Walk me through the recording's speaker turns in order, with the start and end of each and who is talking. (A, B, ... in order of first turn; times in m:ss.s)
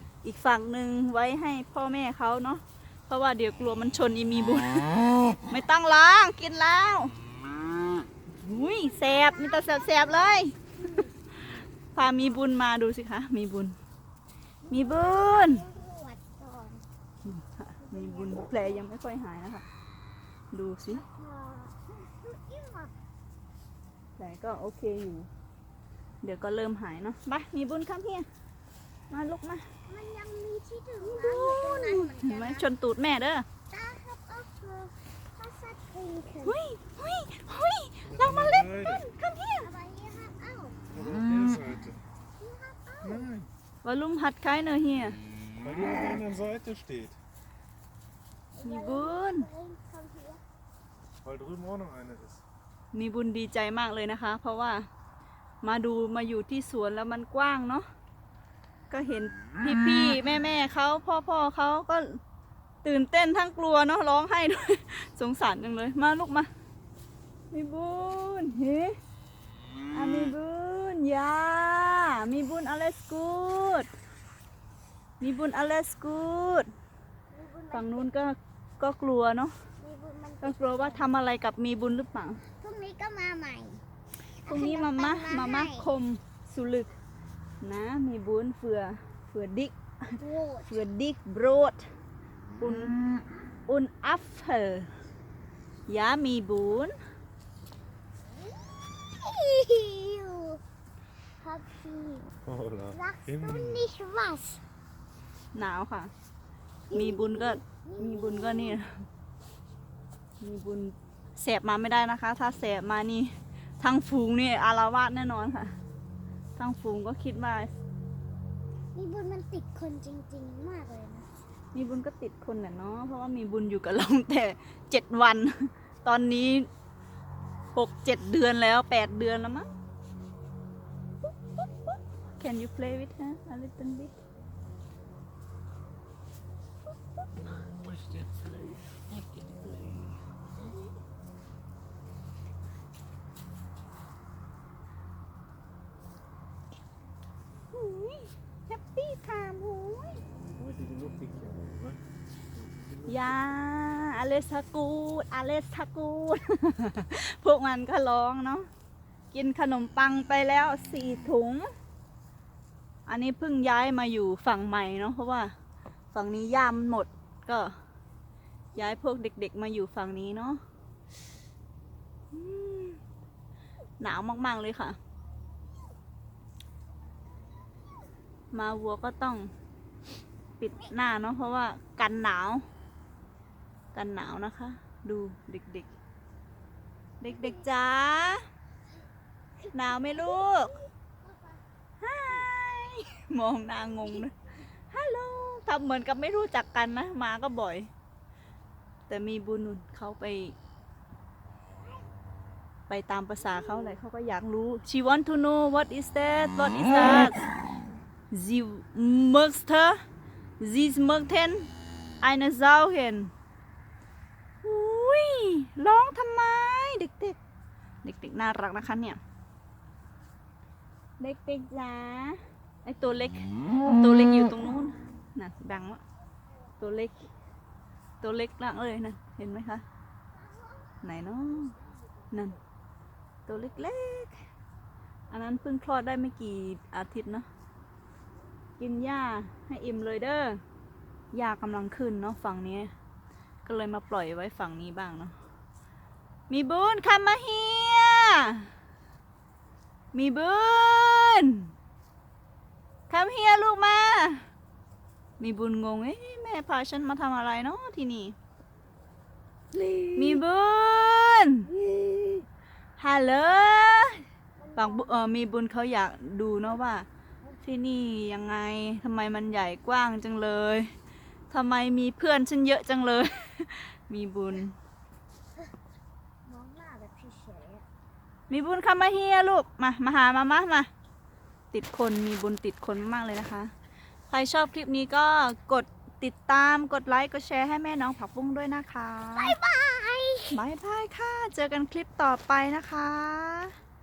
0:00.2-0:07.1 A
0:08.3-0:13.8 A
0:08.6-0:11.2 B
0:14.6-0:16.8 B
0:14.7-0:15.6 A
0:17.2-0:19.6 A
0:17.8-0:18.8 B
0:20.5-0:21.0 A
0:20.9-0:22.9 B
0:24.2-0:25.3 A
0:26.2-0:28.3 A
0:29.1-0:29.6 A
0:29.9-0:32.7 B
0:31.0-0:33.4 A
0:33.7-0:36.6 B
0:36.4-0:39.7 A
0:38.0-0:39.0 C
0:38.6-0:40.8 B
0:40.9-0:42.0 C
0:42.4-0:43.3 B
0:43.0-0:43.5 C
0:43.8-0:45.2 A
0:45.6-0:47.2 C
0:48.6-0:50.4 B
0:48.6-0:49.4 A
0:51.2-0:52.4 C
0:52.9-0:54.8 A
0:55.6-0:57.8 A
0:58.9-1:02.2 A
1:02.8-1:06.5 A
1:07.5-1:08.9 A
1:09.9-1:13.9 A
1:15.2-1:16.7 A
1:17.3-1:18.1 B
1:17.7-1:19.5 A
1:19.8-1:21.1 B
1:20.4-1:22.4 A
1:22.6-1:23.8 B
1:24.4-1:25.9 B
1:24.4-1:26.9 A
1:27.6-1:31.8 A
1:30.2-1:30.8 B
1:32.6-1:33.0 A
1:33.7-1:34.9 A
1:35.9-1:36.9 A
1:39.0-1:40.6 B
1:41.4-1:42.3 B
1:42.4-1:43.8 C
1:42.9-1:44.6 B
1:45.5-1:46.1 A
1:46.9-1:48.8 B
1:46.9-1:49.0 A
1:50.4-1:55.7 A
1:56.6-1:57.7 A
1:58.9-2:01.3 B
2:01.7-2:06.6 A
2:07.7-2:09.7 A
2:12.4-2:14.1 A
2:17.8-2:20.0 C
2:27.7-2:30.2 A
2:30.6-2:32.0 C
2:33.1-2:38.7 A
2:39.3-2:41.7 A
2:43.1-2:45.5 A
2:46.1-2:47.7 A
2:48.7-2:50.6 A
2:52.3-2:53.0 A
2:54.0-2:55.0 A
2:58.5-2:59.5 A
3:00.6-3:02.6 A
3:03.9-3:05.9 A
3:07.2-3:08.4 A
3:07.3-3:07.6 B
3:09.6-3:11.6 B
3:09.7-3:10.7 A
3:12.0-3:14.3 A
3:14.0-3:14.2 B
3:14.9-3:17.9 A
3:19.1-3:20.6 A
3:22.9-3:27.4 A
3:28.3-3:30.0 A
3:30.6-3:31.7 A
3:32.2-3:33.3 A
3:34.6-3:37.4 A
3:38.0-3:39.2 A
3:41.2-3:46.0 A
3:46.8-3:47.3 A
3:48.2-3:49.8 A
3:51.0-3:51.7 A
3:52.3-3:52.6 A
3:53.4-3:54.4 A
3:55.3-3:57.5 A
3:58.8-4:00.6 A
4:01.3-4:02.9 A
4:03.6-4:05.3 A
4:06.5-4:08.7 A
4:10.1-4:11.7 A
4:13.1-4:14.4 A
4:15.4-4:18.4 A
4:19.8-4:20.1 B
4:20.2-4:21.7 A
4:21.8-4:22.4 B
4:23.0-4:24.2 A
4:24.6-4:25.2 B
4:24.8-4:27.1 A
4:27.6-4:30.9 A
4:31.5-4:34.7 A
4:36.4-4:37.8 B
4:38.5-4:40.9 A
4:41.7-4:43.7 A
4:44.3-4:49.5 A
4:49.3-4:50.6 B
4:50.5-4:53.7 A